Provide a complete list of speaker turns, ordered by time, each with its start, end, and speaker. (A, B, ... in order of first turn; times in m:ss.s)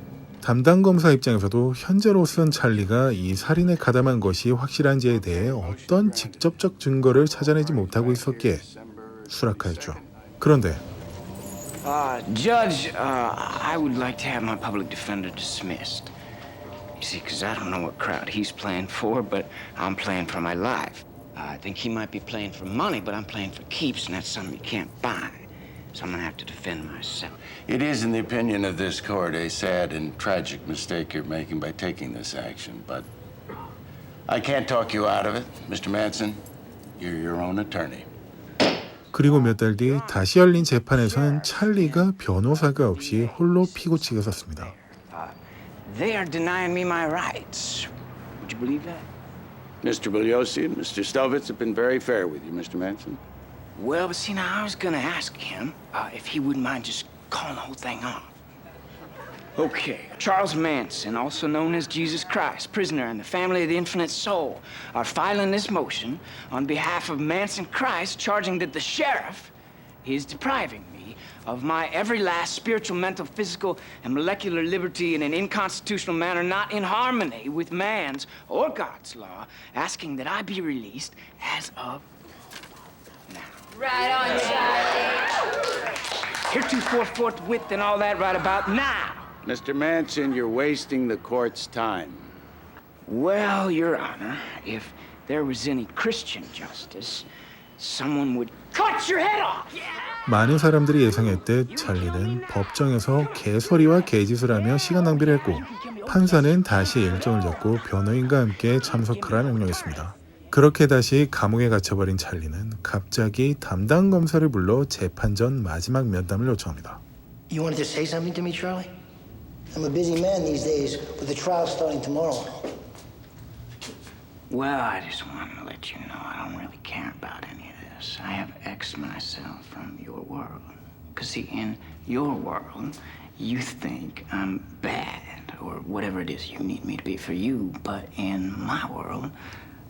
0:00.4-0:08.6 A
0:05.1-0:06.5 B
0:07.1-0:10.1 B
0:09.3-0:10.8 A
0:11.8-0:16.1 C
0:17.0-0:27.4 C
0:27.7-0:33.1 B
0:34.3-0:36.4 B
0:37.0-0:38.1 B
0:39.1-0:44.7 A
0:40.0-0:49.0 C
0:49.8-0:53.2 B
0:53.8-0:58.3 C
0:59.6-1:09.5 C
1:10.0-1:22.1 C
1:23.3-1:24.7 C
1:26.5-1:29.3 C
1:29.4-1:32.3 B
1:33.1-1:39.9 C
1:40.3-1:57.0 A
1:41.5-1:42.5 C
1:45.5-1:47.6 C
1:48.9-1:49.8 C
1:57.5-1:58.9 D
1:59.7-2:02.7 D
2:04.5-2:19.4 C